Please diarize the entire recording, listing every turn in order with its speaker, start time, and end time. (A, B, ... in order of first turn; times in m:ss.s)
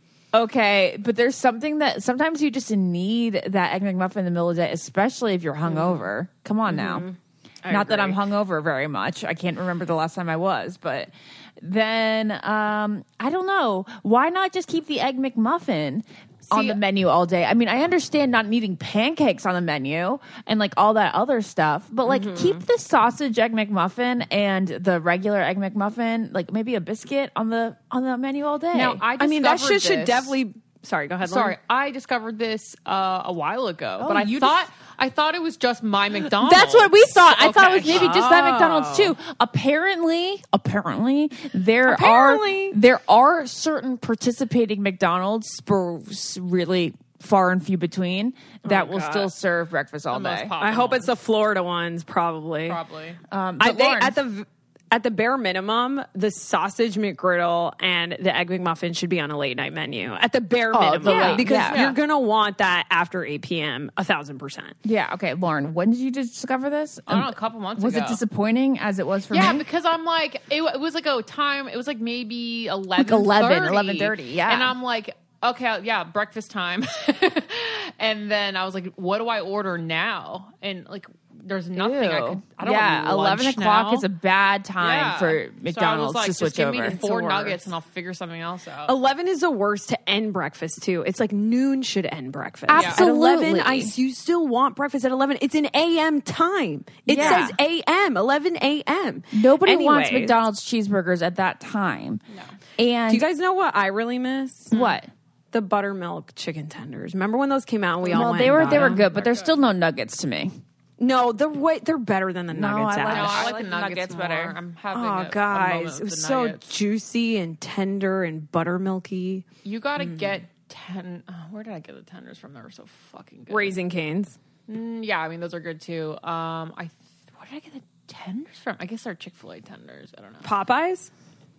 0:00.3-0:07.1 A
0:05.7-0:06.0 B
0:06.7-0:08.2 B
0:07.7-0:29.0 A
0:16.5-0:16.8 C
0:22.1-0:22.6 B
0:28.7-0:30.3 C
0:29.2-0:31.6 B
0:31.2-0:38.1 C
0:34.0-0:34.6 A
0:36.3-0:50.5 A
0:37.7-0:39.2 B
0:41.9-0:42.8 B
0:48.6-0:49.3 B
0:50.1-0:51.2 C
0:50.6-0:52.8 B
0:52.7-0:53.2 C
0:53.3-0:54.2 A
0:53.6-1:04.8 B
1:00.7-1:01.9 A
1:01.0-1:02.0 C
1:04.8-1:09.6 A
1:07.1-1:08.2 C
1:09.3-1:24.1 C
1:13.0-1:14.8 A
1:21.7-1:27.0 A
1:24.8-1:28.9 C
1:26.8-1:27.7 B
1:28.9-1:40.4 B
1:32.7-1:33.9 A
1:32.7-1:33.0 C
1:37.1-1:37.5 A
1:37.2-1:37.5 C
1:39.3-1:42.2 A
1:42.8-1:43.3 A
1:43.1-1:44.7 B
1:44.7-1:45.0 C
1:44.7-1:45.1 A
1:45.5-1:49.0 B
1:48.0-1:49.6 C
1:48.1-1:50.5 A
1:51.0-1:53.5 B
1:52.5-1:54.6 A
1:53.1-1:56.8 C
1:54.9-1:59.4 B
1:59.6-2:03.8 C
2:03.5-2:04.4 B
2:04.7-2:10.5 C
2:10.4-2:11.1 B